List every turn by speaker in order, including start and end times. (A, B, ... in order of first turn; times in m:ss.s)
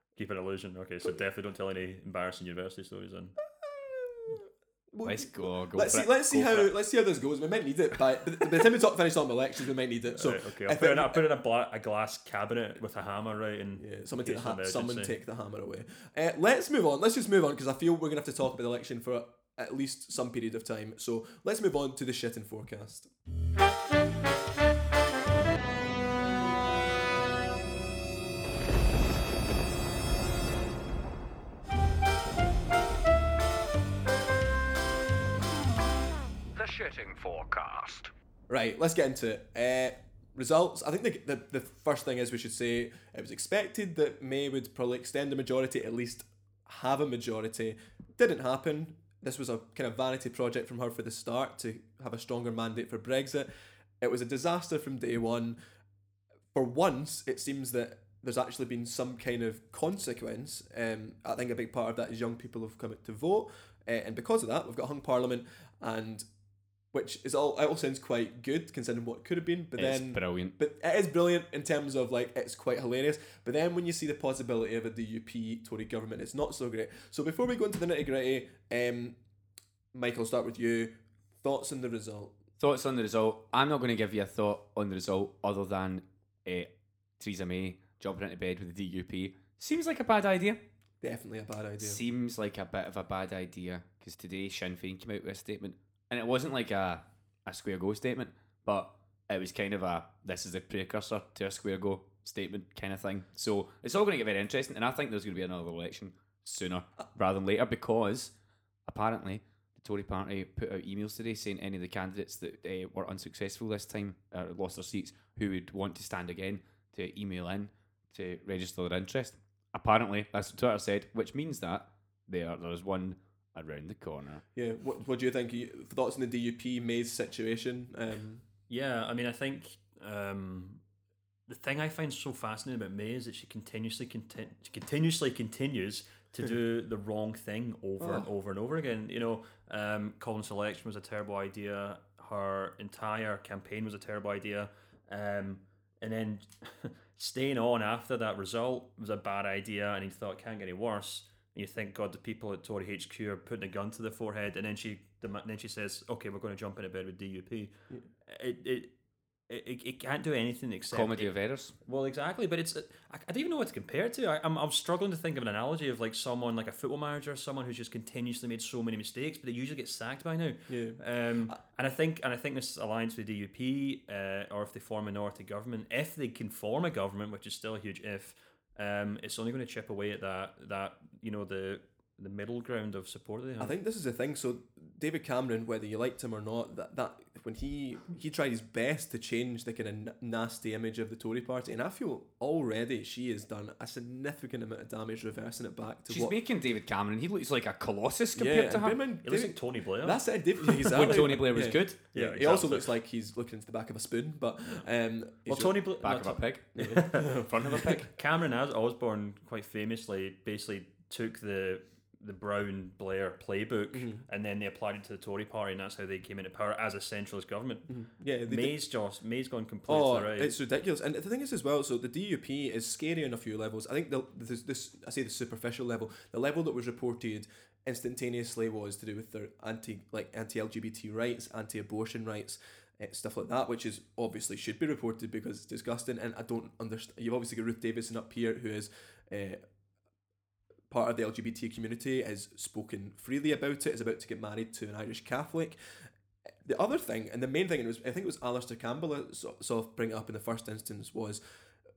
0:00.2-0:03.4 A
0:03.6-0:11.2 B
0:05.0-0:06.7 C
0:10.2-0:15.1 A
0:13.8-0:23.1 B
0:36.6-0:38.1 C
0:38.5-0:53.5 B
0:54.0-0:55.6 B
0:56.5-1:06.3 B
1:06.9-1:19.2 B
1:09.8-1:10.6 C
1:19.9-1:22.4 B
1:22.6-1:30.6 C
1:31.0-1:32.0 B
1:31.8-1:48.3 C
1:48.9-2:04.4 C
2:04.6-2:08.4 B
2:08.7-2:10.8 A
2:11.5-2:37.8 A
2:18.0-2:18.3 B
2:38.3-2:38.9 A
2:39.5-2:41.3 A
2:40.9-2:41.7 C
2:41.8-3:03.8 A
2:50.7-2:51.5 B
3:03.6-3:16.4 B
3:16.1-3:19.0 C
3:18.4-3:25.8 B
3:19.2-3:20.2 A
3:20.8-3:22.0 C
3:22.1-3:22.9 A
3:25.5-3:37.9 A
3:26.0-3:26.6 C
3:26.8-3:28.1 B
3:27.7-3:28.0 C
3:33.9-3:34.2 B
3:37.9-3:38.8 B
3:38.4-3:40.6 A
3:39.9-3:59.6 B
4:00.9-4:05.8 B
4:06.6-4:11.4 B